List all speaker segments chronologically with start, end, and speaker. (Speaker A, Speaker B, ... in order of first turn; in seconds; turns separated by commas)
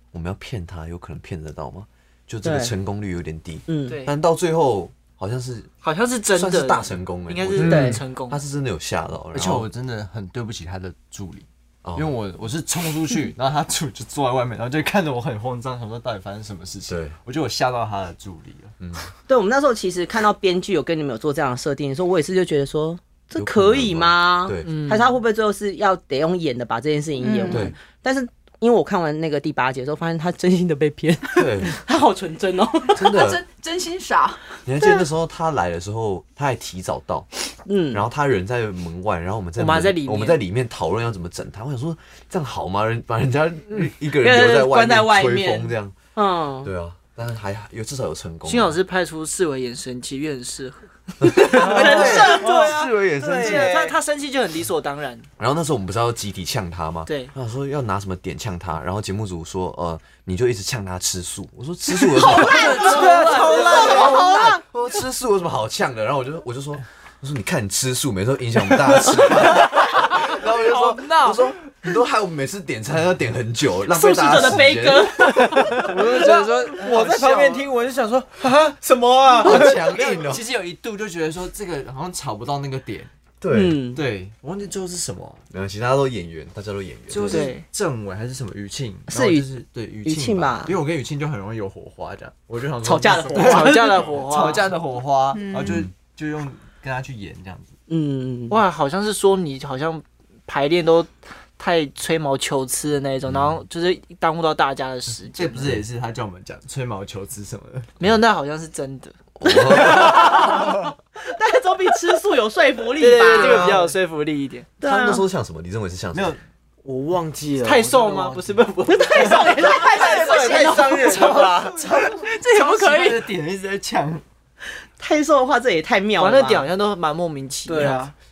Speaker A: 0.1-5.7, Speaker B: 2.4-2.7, Speaker B: 3.7-4.0, Speaker C: 3.9-4.1, Speaker C: 5.8-8.4, Speaker A: 6.3-9.7, Speaker D: 7.5-8.0, Speaker B: 7.6-8.0, Speaker E: 9.3-18.7, Speaker A: 11.8-12.1, Speaker A: 16.9-17.2, Speaker A: 18.8-19.1, Speaker B: 19.3-33.1, Speaker A: 23.3-24.8, Speaker C: 24.6-25.1, Speaker F: 27.2-27.7, Speaker A: 27.5-27.8, Speaker A: 31.4-31.8, Speaker A: 33.0-33.4, Speaker F: 33.0-35.0, Speaker A: 34.6-37.3, Speaker B: 37.7-38.1, Speaker A: 37.9-46.0, Speaker C: 39.6-40.4, Speaker B: 44.2-46.7, Speaker A: 46.6-48.8, Speaker C: 48.5-55.3, Speaker B: 51.5-52.7, Speaker D: 51.5-54.0, Speaker E: 51.8-52.1, Speaker A: 55.4-75.5, Speaker C: 57.1-57.3, Speaker B: 62.1-64.6, Speaker D: 62.8-64.2, Speaker C: 63.0-63.9, Speaker B: 73.9-75.9, Speaker E: 75.8-77.7, Speaker D: 75.8-80.2, Speaker A: 79.4-80.4, Speaker E: 79.5-83.1, Speaker A: 83.4-83.8, Speaker B: 83.5-84.0, Speaker E: 83.9-85.4, Speaker A: 85.5-87.5, Speaker E: 87.1-97.7, Speaker C: 87.3-87.7, Speaker B: 89.1-89.5, Speaker B: 90.0-90.8, Speaker B: 92.8-94.1, Speaker C: 93.3-94.7, Speaker F: 95.3-95.9, Speaker A: 95.6-95.9, Speaker B: 97.9-98.6, Speaker C: 98.5-105.8, Speaker A: 103.3-103.6, Speaker E: 105.3-107.9, Speaker C: 108.0-109.2, Speaker A: 109.4-110.5, Speaker B: 109.4-113.7, Speaker C: 113.0-114.7, Speaker D: 113.4-113.8, Speaker E: 113.4-113.8, Speaker B: 114.8-115.2, Speaker A: 114.8-116.4, Speaker E: 116.1-116.4, Speaker D: 116.8-117.9, Speaker C: 117.6-120.6, Speaker E: 117.8-118.5, Speaker B: 118.9-121.0, Speaker F: 119.2-121.2, Speaker D: 120.3-121.8, Speaker E: 121.0-124.2, Speaker F: 122.2-123.3, Speaker B: 125.0-126.7, Speaker C: 126.2-128.1, Speaker D: 127.7-128.1